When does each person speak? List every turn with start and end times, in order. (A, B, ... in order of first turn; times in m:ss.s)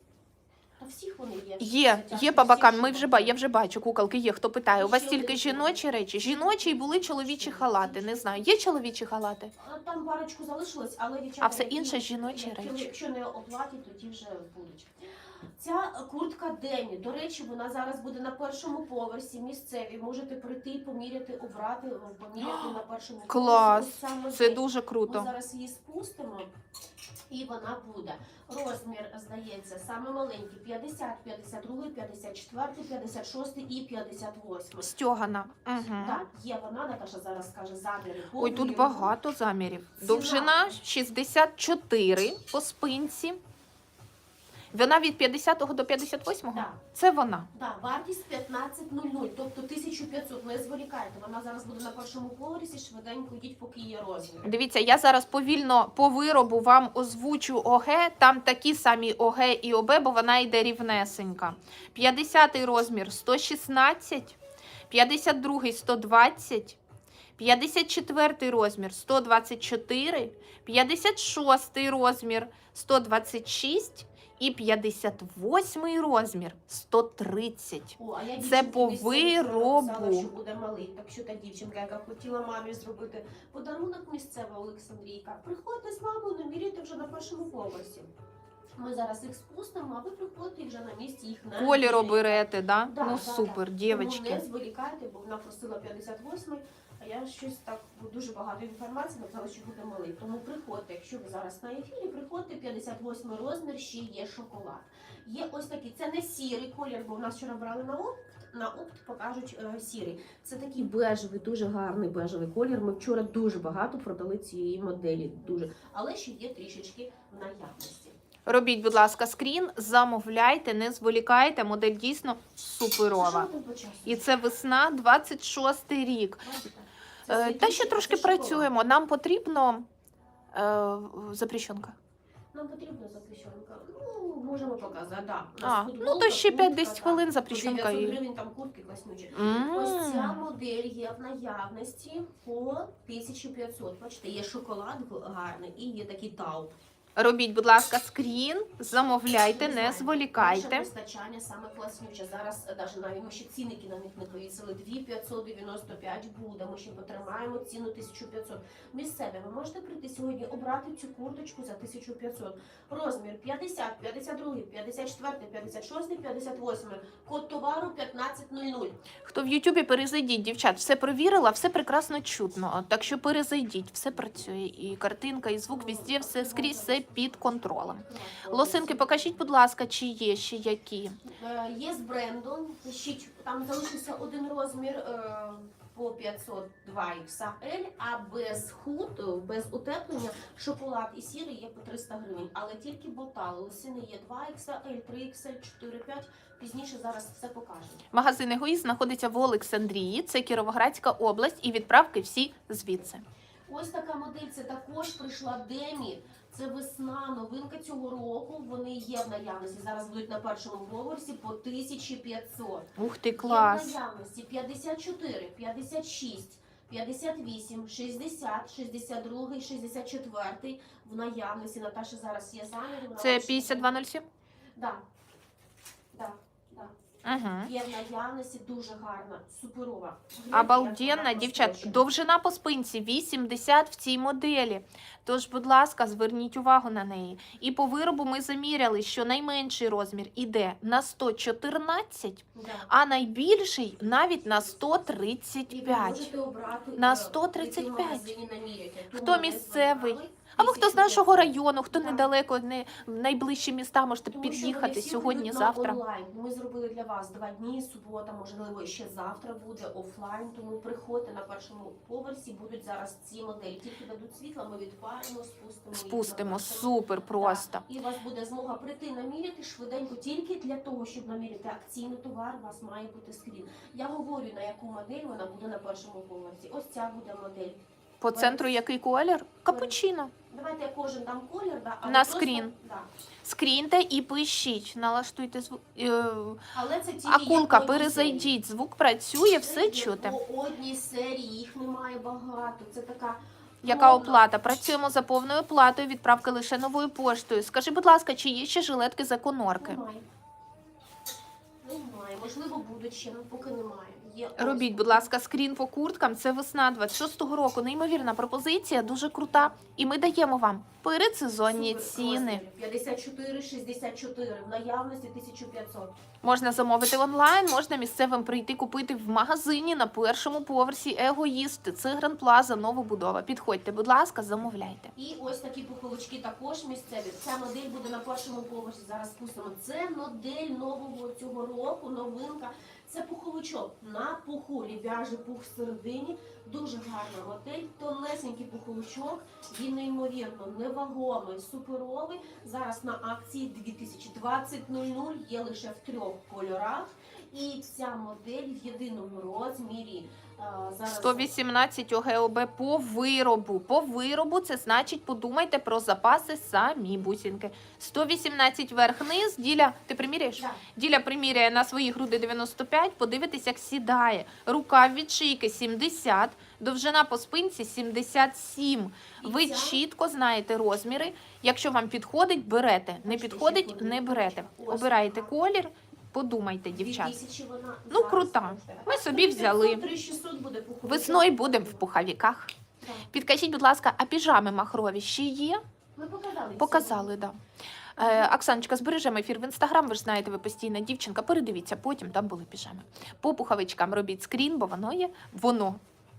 0:00.8-0:03.4 A
0:01.6-0:09.5 B
0:04.7-0:08.5 A
0:09.6-0:14.9 A
0:11.4-0:12.9 B
0:15.6-0:26.5 A
0:22.4-0:25.3 B
0:27.3-0:34.9 A
0:34.8-0:36.2 B
0:36.0-0:39.1 A
0:38.4-0:43.4 B
0:40.0-0:40.8 A
0:44.7-0:47.5 B
0:46.5-0:46.8 A
0:47.5-0:54.5 A
0:54.4-1:04.4 B
1:04.9-1:06.8 B
1:07.4-1:20.3 B
1:18.0-1:28.1 A
1:28.8-1:58.2 A
1:31.6-1:34.4 B
1:58.5-2:03.5 B
2:03.2-2:04.3 A
2:04.1-2:06.5 B
2:06.4-2:08.7 A
2:07.3-2:09.9 B
2:10.5-2:12.0 B
2:12.5-2:26.8 A
2:15.6-2:18.2 B
2:19.3-2:20.4 B
2:27.2-2:30.9 B
2:29.4-2:49.0 A
2:49.2-3:01.2 B
2:55.7-2:59.4 A
3:01.2-3:18.1 A
3:18.1-3:23.2 B
3:23.7-3:44.0 A
3:33.0-3:34.0 B
3:43.2-3:44.3 B
3:44.8-3:45.0 A
3:46.1-3:46.9 A
3:47.2-3:47.7 B
3:47.6-3:52.0 A
3:50.5-4:06.3 B
4:02.6-4:02.9 A
4:04.1-4:12.3 A
4:07.0-4:08.3 B
4:09.1-4:16.0 B
4:14.3-4:37.8 A
4:25.9-4:27.8 B
4:38.2-4:40.3 B
4:38.3-4:38.7 A
4:39.7-4:40.0 A
4:40.5-4:43.1 A
4:42.0-4:42.7 B
4:43.4-4:46.6 B
4:46.7-4:48.5 A
4:47.3-4:50.4 B
4:49.6-4:54.4 A
4:53.8-5:00.0 B
4:59.8-5:00.3 A
5:01.8-5:05.3 A
5:04.6-5:12.6 B
5:11.7-5:16.2 A
5:16.4-5:25.1 B
5:25.2-5:51.5 A
5:51.1-6:17.4 B
6:09.4-6:10.0 A
6:13.2-6:15.5 A
6:16.9-6:22.0 A
6:18.1-6:20.1 B
6:21.0-6:22.7 B
6:23.0-6:23.3 A
6:23.3-6:25.8 B
6:26.2-6:27.4 A
6:26.8-6:27.6 B
6:28.2-6:36.0 B
6:28.2-6:28.6 A